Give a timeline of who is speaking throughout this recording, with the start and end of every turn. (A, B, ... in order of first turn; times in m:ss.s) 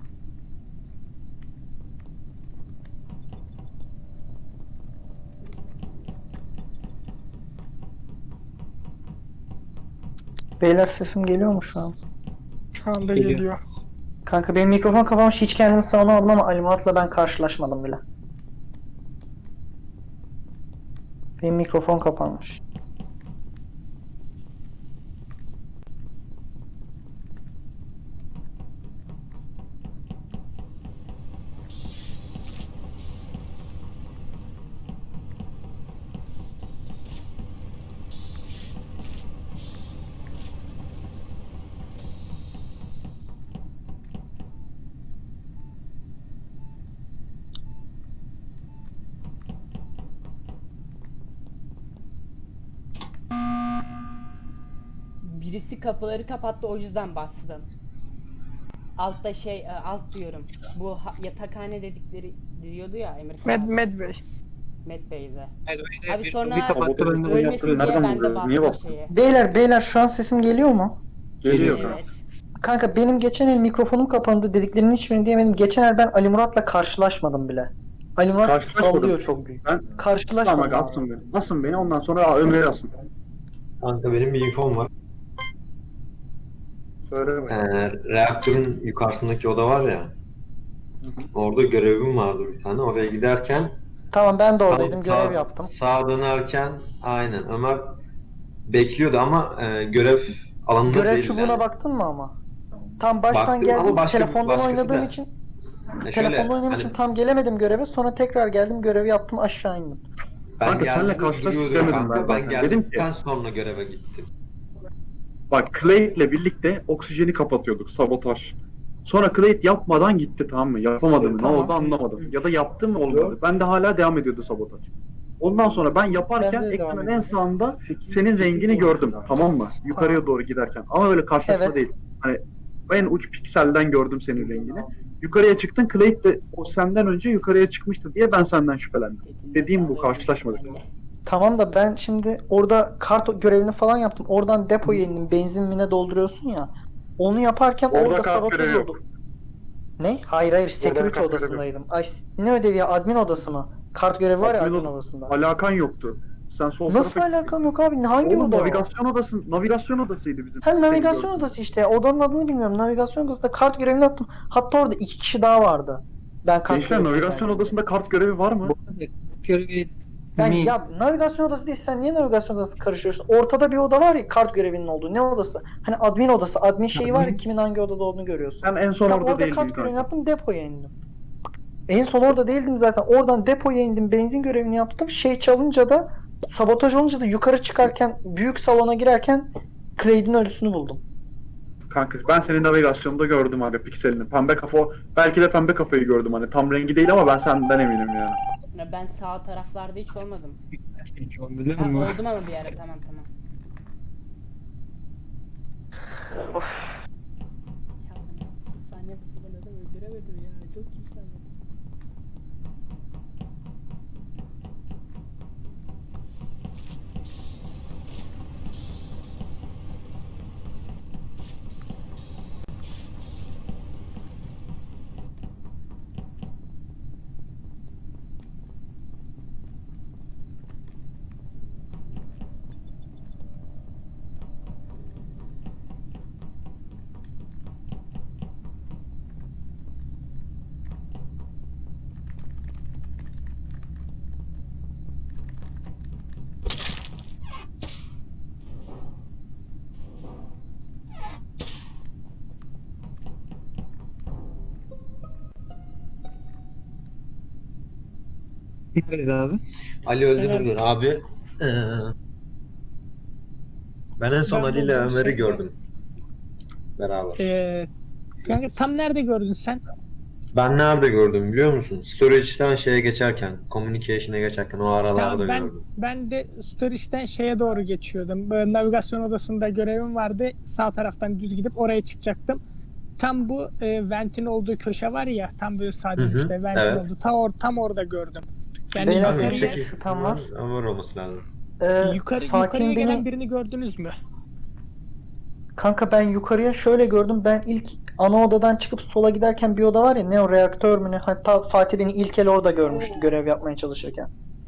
0:10.6-0:11.9 A
0:12.8-0:13.6 B
0:13.1-0:13.5 C
0:14.2-0:18.0 A
0:21.4-0:22.6 A
0:55.2-0:57.6 D
0:59.0-1:03.9 D
1:03.4-1:04.2 B
1:04.8-1:05.5 D
1:05.7-1:08.0 C
1:06.1-1:09.1 D
1:06.7-1:08.9 E
1:09.1-1:11.0 A
1:11.4-1:12.0 E
1:11.4-1:11.9 C
1:11.5-1:12.1 D
1:12.6-1:21.0 A
1:18.4-1:19.9 E
1:20.4-1:22.9 E
1:23.8-1:24.9 F
1:27.1-1:27.6 E
1:27.5-1:30.1 F
1:31.0-1:31.3 E
1:31.3-1:33.7 F
1:34.1-1:35.7 A
1:34.7-1:37.9 F
1:38.7-1:41.6 F
1:40.8-1:42.4 A
1:43.0-1:45.3 A
1:43.3-1:45.1 F
1:46.0-1:47.0 F
1:46.1-1:50.0 A
1:50.6-1:54.3 F
1:50.6-1:53.1 E
1:55.5-2:04.8 E
2:01.3-2:01.8 A
2:05.4-2:20.8 E
2:06.4-2:07.4 A
2:09.9-2:10.2 A
2:11.4-2:11.8 A
2:19.2-2:20.9 D
2:21.2-2:29.0 A
2:27.9-2:29.0 E
2:30.0-2:35.3 A
2:30.8-2:31.6 E
2:34.4-2:37.5 E
2:36.9-2:38.9 A
2:38.2-2:41.5 E
2:40.6-2:47.8 A
2:46.7-2:48.7 E
2:48.6-2:50.8 C
2:50.4-3:00.9 A
2:56.9-2:57.4 C
2:58.6-3:00.0 E
3:01.9-3:11.0 A
3:11.9-3:18.4 E
3:18.7-3:20.6 D
3:21.0-3:22.2 C
3:21.8-3:23.3 D
3:28.0-3:31.5 D
4:19.0-4:19.6 C
4:20.0-4:22.1 F
4:20.4-4:20.7 B
4:24.2-4:25.7 F
4:24.4-4:25.6 B
4:27.0-4:27.5 F
4:27.3-4:27.9 B
4:28.4-4:29.8 B
4:30.5-4:35.8 F
4:35.1-4:42.6 B
4:43.2-4:49.8 B
4:46.2-4:47.1 F
4:49.0-4:50.4 A
4:49.2-4:51.4 F
4:51.8-4:53.2 A
4:52.0-4:54.2 B
4:55.8-5:04.3 A